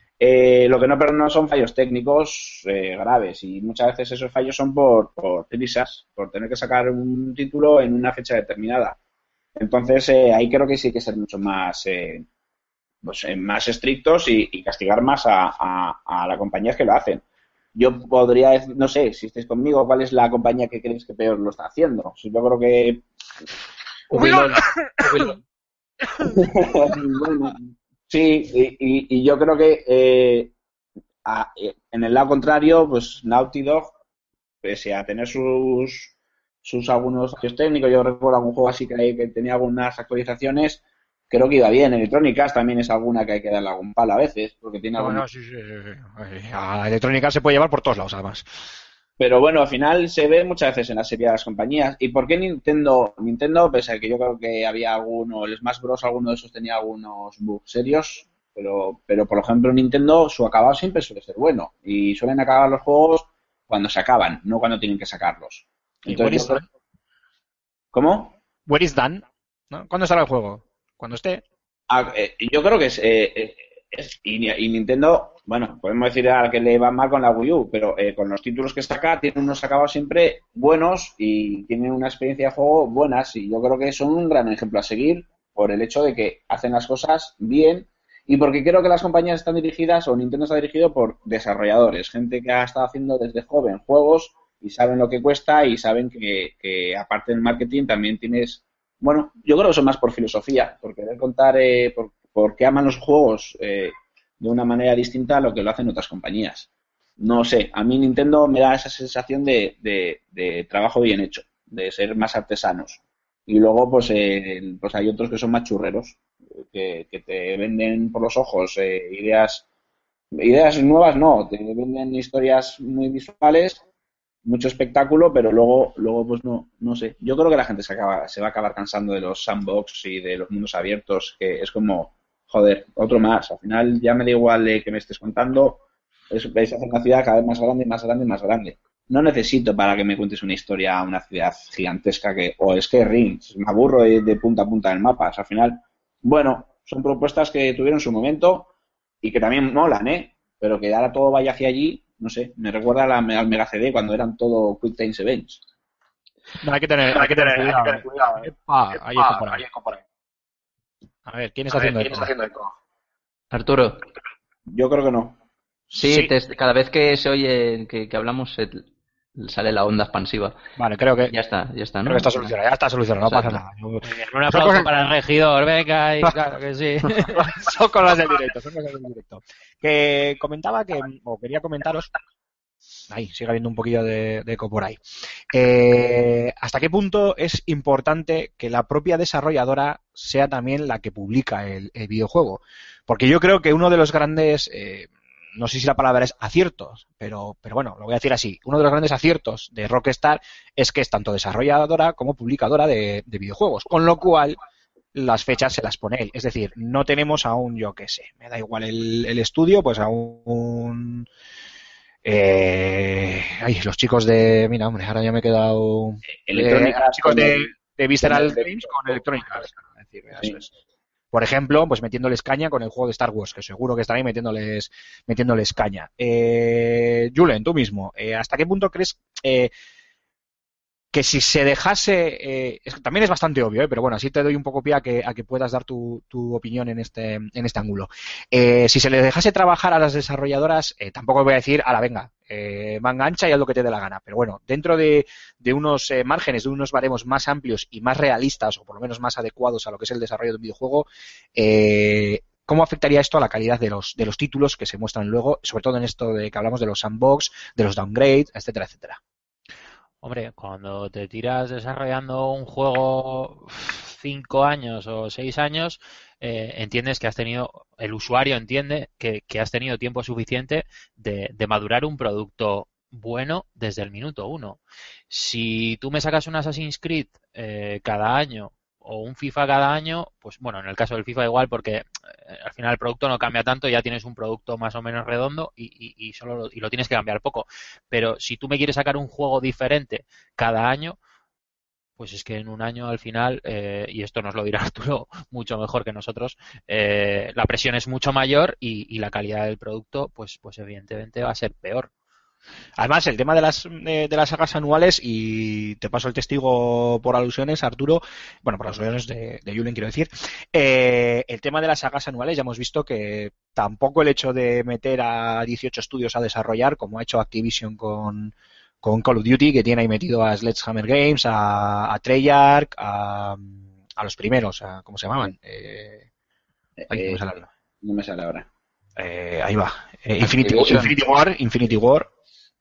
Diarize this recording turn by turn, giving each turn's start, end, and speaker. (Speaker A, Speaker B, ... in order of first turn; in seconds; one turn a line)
Speaker A: 0.2-9.0
Speaker A: 9.6-12.2
Speaker A: 13.0-17.2
Speaker A: 17.7-23.0
Speaker B: 24.1-25.4
Speaker C: 24.2-25.1
Speaker A: 26.2-30.5
Speaker A: 31.2-33.9
Speaker A: 34.6-36.1
Speaker A: 36.6-45.2
Speaker C: 45.0-48.5
Speaker A: 49.2-66.6
Speaker C: 66.0-66.6
Speaker A: 67.9-68.3
Speaker C: 68.7-71.4
Speaker A: 71.9-106.7
Speaker A: 107.2-119.6
Speaker A: 120.4-123.8
Speaker A: 124.4-148.7
Speaker A: 149.2-155.6
Speaker C: 156.6-159.7
Speaker C: 161.2-162.3
Speaker B: 163.5-164.0
Speaker A: 164.7-165.3
Speaker B: 165.9-168.8
Speaker C: 165.9-166.3
Speaker B: 169.4-170.6
Speaker C: 170.8-171.3
Speaker B: 171.2-172.5
Speaker C: 172.0-174.9
Speaker B: 173.3-173.6
Speaker D: 174.0-177.5
Speaker C: 177.1-182.1
Speaker C: 183.1-204.6
Speaker C: 205.1-211.3
Speaker C: 212.2-220.7
Speaker A: 216.4-219.2
Speaker A: 220.3-220.6
Speaker C: 221.3-229.7
Speaker C: 231.1-259.2
Speaker D: 260.2-274.8
Speaker D: 275.3-291.2
Speaker D: 292.2-302.1
Speaker C: 303.0-326.2
Speaker A: 327.0-327.4
Speaker C: 327.1-327.7
Speaker A: 328.0-328.7
Speaker C: 329.2-332.3
Speaker B: 330.4-331.1